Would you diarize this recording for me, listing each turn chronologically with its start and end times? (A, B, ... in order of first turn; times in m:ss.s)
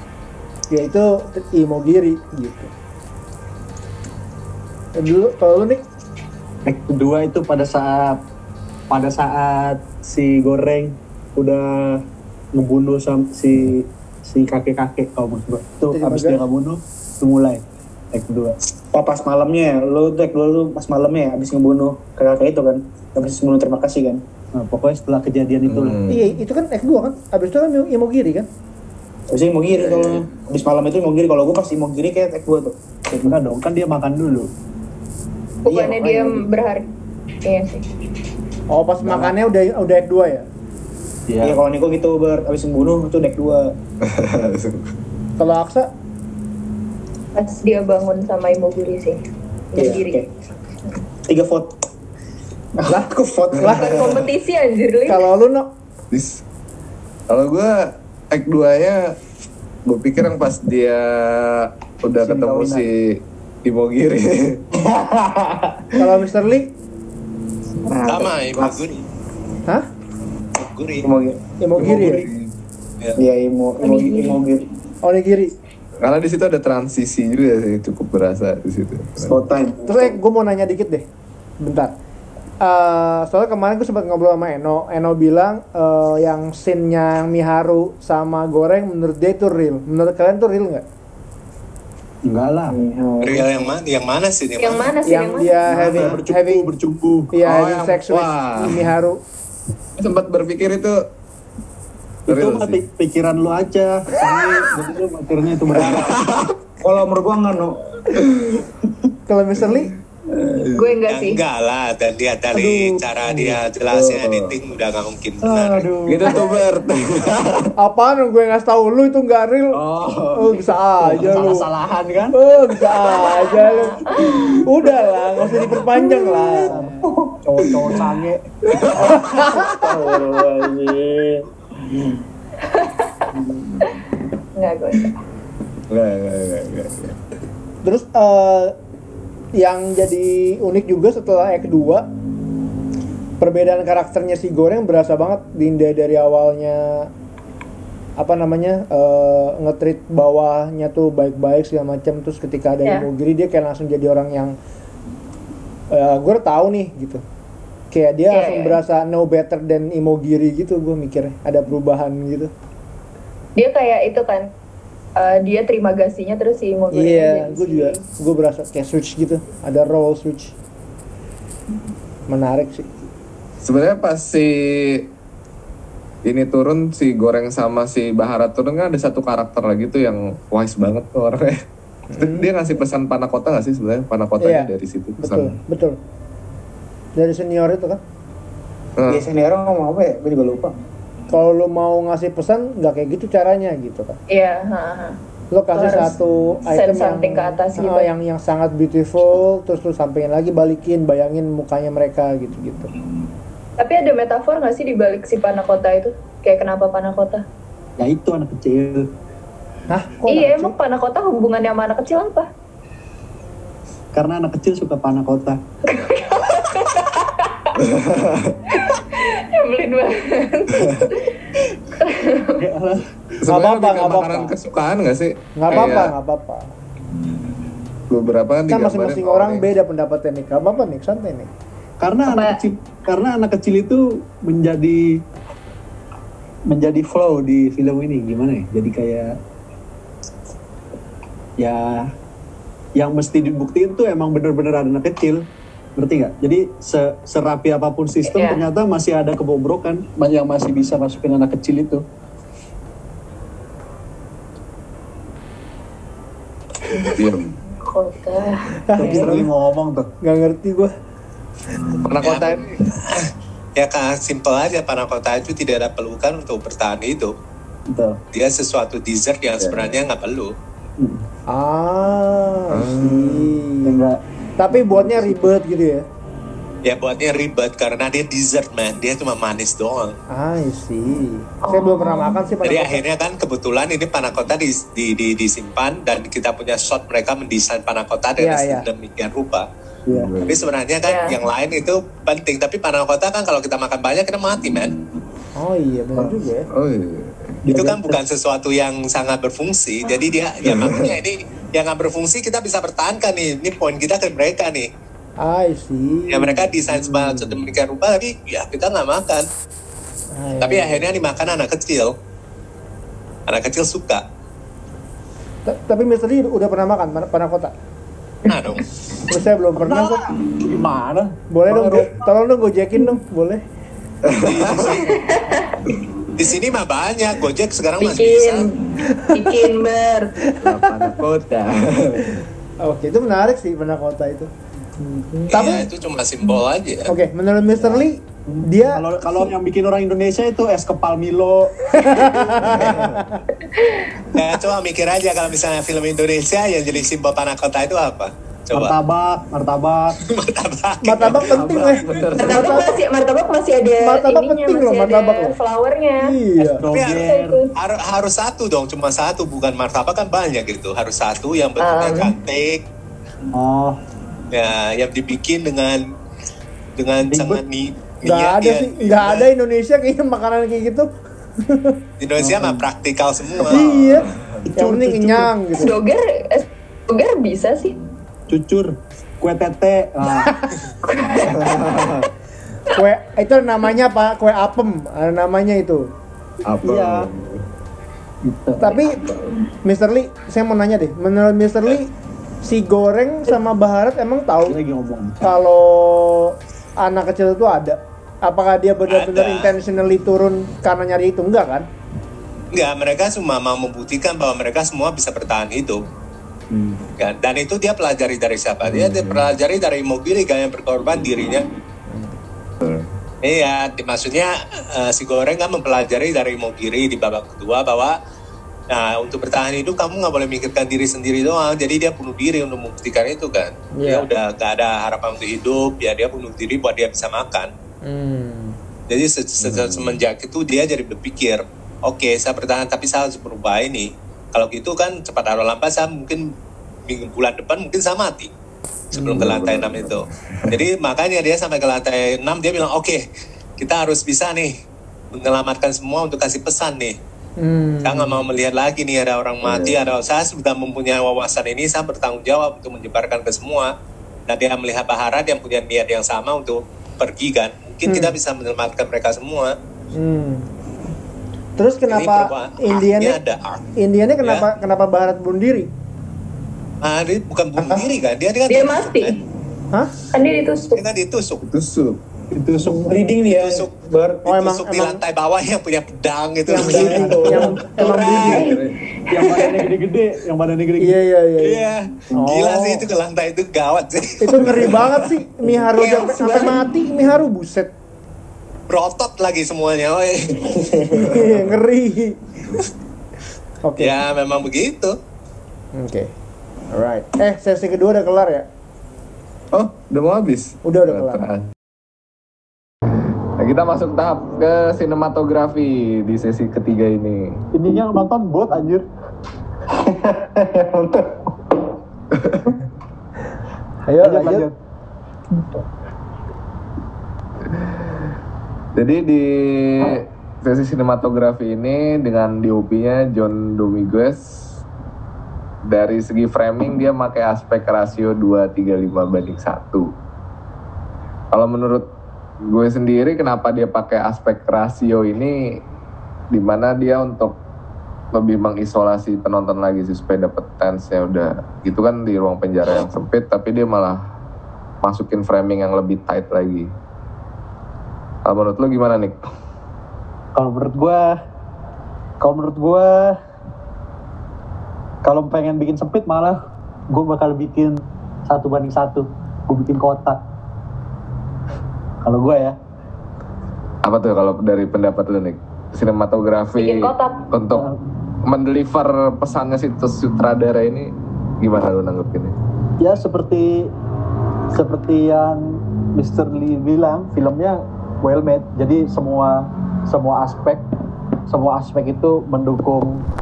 0:00.7-0:02.7 A
0:05.0-0:05.8 A
0:06.6-0:08.2 B
0:08.9-0:12.0 B
0:12.5-0:18.6 B
0:15.9-0:16.4 A
0:18.9-0:24.2 C
0:24.6-0:26.0 B
0:25.6-0:26.3 D
0:26.1-0:28.5 A
0:29.3-0:33.3 C
0:29.8-0:30.2 D
0:33.2-0:34.5 B
0:35.6-0:36.9 E
0:35.6-0:36.4 C
0:37.4-0:37.9 E
0:38.7-0:40.5 A
0:39.0-0:39.3 B
0:41.3-0:41.6 B
0:41.4-0:43.7 C
0:44.0-0:44.9 D
0:45.4-0:45.9 A
0:47.3-0:49.2 E
0:49.7-0:50.2 E
0:49.7-0:50.3 C
0:51.3-0:51.8 C
0:52.8-0:54.2 C
0:53.6-0:53.9 A
0:53.7-0:55.3 E
0:55.1-0:55.7 A
0:56.1-0:56.4 D
0:57.3-0:59.1 D
0:59.8-1:04.6 D
1:02.2-1:02.8 C
1:04.8-1:05.9 C
1:06.0-1:06.7 A
1:07.8-1:08.8 C
1:08.1-1:09.0 F
1:10.6-1:11.1 F
1:11.0-1:11.4 C
1:11.6-1:12.3 A
1:11.8-1:12.5 D
1:13.2-1:14.7 C
1:13.8-1:14.4 E
1:15.0-1:15.5 A
1:16.0-1:19.4 D
1:19.2-1:20.2 C
1:19.8-1:21.0 A
1:21.6-1:21.9 A
1:22.6-1:30.8 A
1:32.2-1:32.8 B
1:32.7-1:33.7 C
1:33.2-1:34.9 F
1:34.6-1:35.6 E
1:35.0-1:36.7 A
1:35.7-1:37.3 B
1:37.3-1:39.2 A
1:37.4-1:38.9 D
1:40.0-1:41.0 D
1:42.3-1:46.2 B
1:42.3-1:42.8 D
1:45.7-1:46.5 D
1:46.8-1:47.8 C
1:48.2-1:48.6 D
1:49.3-1:49.9 A
1:49.6-1:51.0 D
1:50.7-1:51.4 E
1:51.1-1:55.9 F
1:52.6-1:53.6 B
1:53.9-1:54.6 D
1:55.4-1:56.5 B
1:56.1-1:57.7 D
1:57.8-1:59.8 A
1:59.7-2:02.4 B
2:00.3-2:01.7 A
2:02.3-2:06.8 A
2:03.0-2:04.6 E
2:06.7-2:08.5 B
2:07.0-2:07.9 C
2:08.7-2:09.7 D
2:08.8-2:12.1 C
2:12.6-2:13.1 E
2:13.3-2:13.7 C
2:14.6-2:15.2 E
2:15.9-2:17.2 D
2:17.8-2:18.7 A
2:19.6-2:22.0 A
2:23.4-2:27.1 A
2:28.2-2:34.6 A
2:35.9-2:37.2 A
2:37.9-2:42.5 A
2:38.3-2:38.8 E
2:43.6-2:44.5 E
2:45.2-2:48.0 E
2:46.9-2:50.5 A
2:52.3-2:53.0 A
2:53.6-2:55.0 D
2:56.2-3:01.6 D
3:02.1-3:02.5 A
3:02.2-3:05.6 D
3:04.4-3:06.0 A
3:07.2-3:08.0 A
3:09.0-3:09.2 D
3:09.1-3:10.8 C
3:11.3-3:14.2 A
3:14.3-3:15.2 E
3:15.5-3:22.9 A
3:15.7-3:16.2 E
3:16.7-3:18.1 E
3:23.8-3:27.4 E
3:28.0-3:29.1 B
3:29.9-3:30.7 A
3:30.3-3:32.5 E
3:34.1-3:35.6 B
3:35.9-3:37.8 E
3:37.8-3:38.6 D
3:38.7-3:41.3 E
3:40.8-3:41.1 D
3:42.0-3:42.6 E
3:42.6-3:43.0 B
3:43.4-3:46.1 D
3:43.5-3:44.5 A
3:45.6-3:46.7 A
3:48.1-3:49.7 D
3:48.7-3:51.5 A
3:52.0-3:55.0 B
3:52.2-3:52.6 E
3:56.7-3:59.3 B
4:01.6-4:02.1 B
4:03.0-4:05.4 B
4:06.0-4:12.0 B
4:08.2-4:08.6 E
4:16.9-4:19.3 E
4:17.1-4:17.5 D
4:18.9-4:19.5 A
4:19.0-4:20.1 B
4:20.2-4:20.9 A
4:22.0-4:22.7 D
4:22.2-4:27.3 F
4:27.9-4:28.2 B
4:28.3-4:30.5 F
4:29.6-4:30.0 D
4:31.0-4:31.2 B
4:31.5-4:34.0 A
4:32.7-4:33.6 D
4:33.8-4:35.4 B
4:34.6-4:36.0 A
4:36.8-4:40.2 F
4:40.3-4:43.0 A
4:41.6-4:42.4 E
4:42.6-4:49.7 F
4:48.4-4:48.8 A
4:50.1-4:50.4 B
4:50.1-4:50.6 D
4:50.4-4:55.0 F
4:51.0-4:51.4 E
4:55.6-4:56.7 A
4:56.7-4:57.6 D
4:57.6-4:58.2 B
4:57.7-5:04.9 F
5:00.6-5:01.2 D
5:05.4-5:06.8 A
5:06.3-5:09.4 F
5:10.3-5:11.1 A
5:10.6-5:12.1 F
5:13.5-5:14.2 F
5:15.6-5:17.7 A
5:18.4-5:18.9 F
5:19.3-5:20.2 A
5:19.8-5:22.1 B
5:21.5-5:23.6 A
5:24.2-5:25.1 D
5:24.4-5:25.2 F
5:25.0-5:25.8 E
5:26.3-5:28.7 F
5:28.0-5:30.3 E
5:29.1-5:29.6 A
5:30.6-5:31.1 A
5:30.7-5:32.4 D
5:32.4-5:34.5 A
5:35.4-5:35.8 A
5:35.5-5:37.1 F
5:37.1-5:39.0 A
5:37.7-5:41.7 B
5:41.9-5:43.4 A
5:42.6-5:43.2 D
5:43.6-5:44.3 E
5:44.3-5:48.9 F
5:48.7-5:50.2 B
5:50.2-5:51.9 F
5:51.0-5:52.9 A
5:51.2-5:52.8 D
5:52.4-5:56.3 E
5:54.0-5:55.6 A
5:56.2-5:56.8 A
5:56.6-5:57.6 B
5:56.9-6:02.8 F
5:57.1-5:57.7 E
6:01.8-6:02.3 E
6:03.5-6:04.0 B
6:04.5-6:06.0 F
6:07.0-6:09.5 F
6:07.2-6:07.6 B
6:08.2-6:11.1 A
6:11.6-6:12.0 A
6:12.2-6:13.9 F
6:12.4-6:12.8 B
6:13.6-6:16.0 A
6:14.0-6:14.6 D
6:14.6-6:15.5 B
6:15.7-6:18.0 E
6:18.5-6:20.5 B
6:21.4-6:22.2 D
6:22.9-6:26.1 A
6:26.6-6:27.6 D
6:26.8-6:27.3 B
6:28.4-6:29.0 B
6:28.8-6:29.2 A
6:29.8-6:32.1 A
6:32.6-6:34.8 A
6:34.6-6:35.5 B
6:35.4-6:41.9 A
6:39.1-6:39.7 F
6:42.7-6:46.0 F
6:47.2-6:51.6 F
6:48.8-6:49.4 D
6:52.8-6:53.1 D
6:53.4-6:58.2 F
6:58.9-7:07.7 F
7:03.9-7:04.3 A
7:08.0-7:08.8 A
7:09.1-7:16.5 F
7:09.6-7:10.2 D
7:17.1-7:18.5 F
7:19.1-7:23.2 F
7:19.2-7:19.4 A
7:19.2-7:20.8 D
7:23.8-7:24.7 F
7:25.3-7:27.1 F
7:27.6-7:28.4 A
7:28.0-7:33.9 F
7:29.6-7:30.1 D
7:34.5-7:39.8 F
7:38.0-7:38.3 A
7:40.1-7:40.7 A
7:41.8-7:43.4 A
7:42.1-7:43.8 F
7:44.0-7:45.9 A
7:47.0-7:49.3 F
7:47.8-7:48.0 C
7:48.7-7:49.4 E
7:50.3-7:51.0 E
7:50.7-7:51.6 F
7:51.7-7:52.2 D
7:52.5-7:53.1 B
7:52.8-7:54.4 C
7:53.4-7:53.9 F
7:54.4-7:55.2 A
7:54.4-7:58.7 F
7:56.7-7:58.7 A
7:56.7-7:58.4 C
7:56.9-7:58.4 B
7:58.3-7:59.9 E
7:58.4-7:59.0 D
7:59.3-8:01.2 B
8:01.0-8:03.0 A
8:01.6-8:05.0 F
8:04.4-8:07.9 A
8:04.8-8:05.1 D
8:06.0-8:06.8 F
8:06.1-8:06.7 C
8:08.9-8:10.9 F
8:10.6-8:11.3 C
8:11.1-8:11.7 D
8:11.2-8:12.4 A
8:13.8-8:14.2 A
8:14.0-8:15.1 F
8:15.9-8:16.3 A
8:16.9-8:18.7 A
8:19.7-8:21.7 D
8:20.8-8:21.4 A
8:23.6-8:27.6 D
8:27.7-8:29.0 B
8:29.9-8:31.8 C
8:32.3-8:32.7 D
8:34.1-8:34.7 A
8:34.2-8:34.7 B
8:37.7-8:38.3 D
8:38.9-8:44.8 D
8:45.8-8:50.1 D
8:51.5-8:52.0 D
8:52.6-8:55.6 D
8:56.5-8:57.6 D
8:58.3-9:04.2 D
9:05.0-9:06.9 D
9:08.4-9:09.4 D
9:10.6-9:11.3 B
9:12.4-9:13.4 B
9:15.2-9:16.6 B
9:17.1-9:20.4 B
9:22.2-9:22.8 B
9:24.0-9:27.9 D
9:26.8-9:27.4 E
9:27.7-9:28.0 B
9:28.4-9:32.6 D
9:33.0-9:33.9 B
9:34.7-9:40.8 B
9:41.5-9:43.2 B